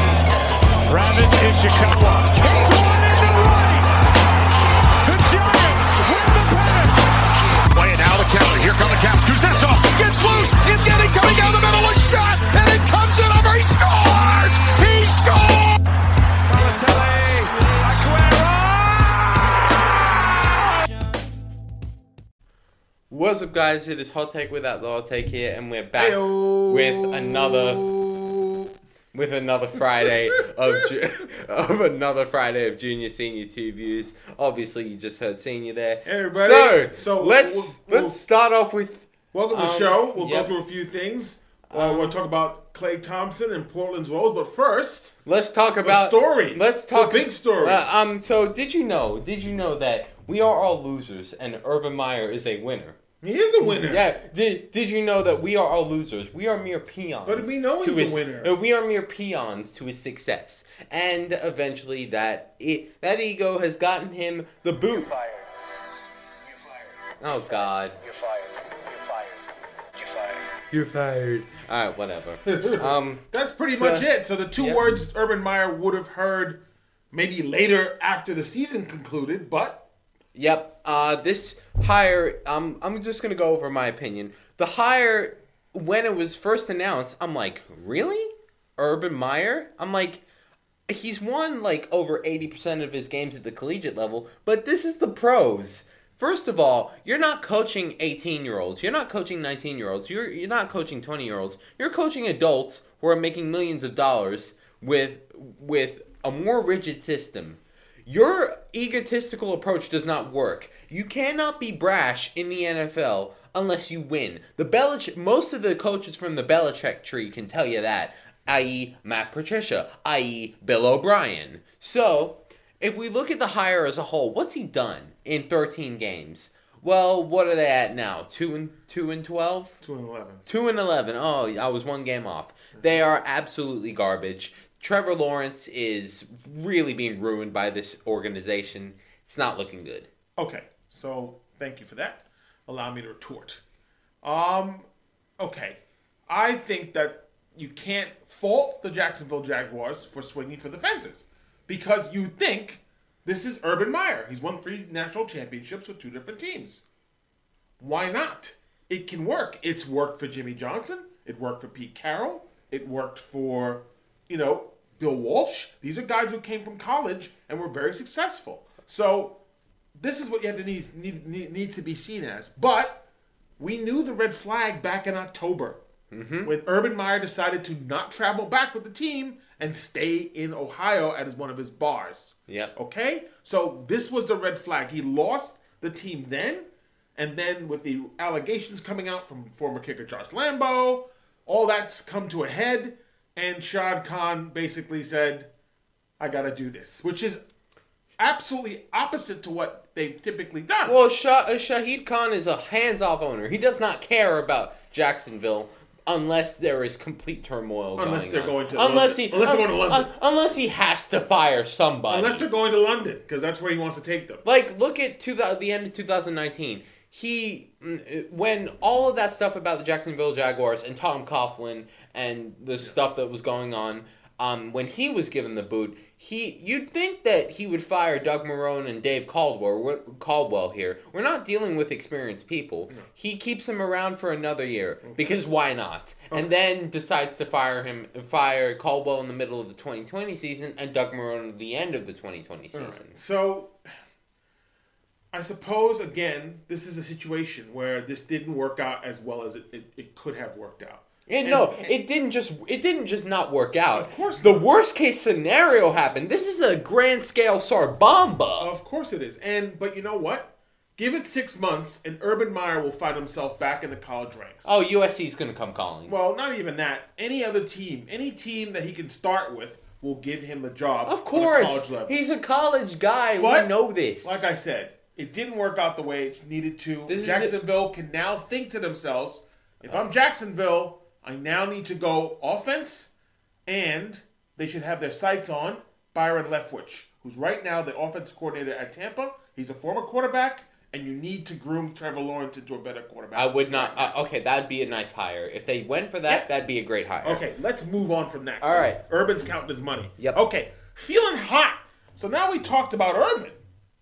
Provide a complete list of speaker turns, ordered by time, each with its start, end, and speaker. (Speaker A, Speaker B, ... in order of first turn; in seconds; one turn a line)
Speaker A: 0.9-3.9
Speaker A: 5.0-7.0
Speaker B: 7.7-15.8
Speaker C: 16.5-19.6
Speaker A: 16.6-17.1
Speaker D: 23.1-27.9
Speaker C: 25.9-28.7
Speaker D: 29.1-40.5
Speaker C: 36.0-38.2
Speaker C: 39.3-45.1
Speaker D: 41.7-42.2
Speaker D: 45.2-53.0
Speaker C: 45.8-47.9
Speaker C: 53.2-54.1
Speaker D: 53.6-65.1
Speaker C: 57.2-58.5
Speaker E: 64.8-65.5
Speaker E: 66.4-71.6
Speaker D: 67.2-68.0
Speaker D: 71.6-74.8
Speaker C: 72.5-76.6
Speaker C: 77.1-79.8
Speaker D: 80.3-90.2
Speaker D: 90.9-129.8
Speaker C: 129.8-130.4
Speaker D: 130.5-140.1
Speaker C: 140.4-143.6
Speaker C: 144.2-144.9
Speaker C: 145.4-156.8
Speaker C: 157.8-169.4
Speaker C: 170.0-173.0
Speaker C: 173.6-175.8
Speaker D: 176.1-176.5
Speaker C: 176.4-195.5
Speaker D: 182.5-182.7
Speaker C: 196.2-197.4
Speaker C: 198.2-201.0
Speaker D: 200.9-212.5
Speaker C: 208.0-210.1
Speaker C: 212.1-214.4
Speaker D: 214.4-243.2
Speaker C: 235.0-235.4
Speaker C: 242.7-243.8
Speaker C: 245.3-252.0
Speaker D: 251.3-258.7
Speaker C: 253.9-254.6
Speaker C: 258.6-264.7
Speaker D: 264.6-266.1
Speaker C: 266.1-272.2
Speaker D: 271.1-274.4
Speaker C: 273.4-273.7
Speaker C: 274.2-283.1
Speaker D: 277.1-277.5
Speaker C: 283.7-294.2
Speaker D: 293.4-297.4
Speaker C: 297.2-303.6
Speaker D: 298.6-299.0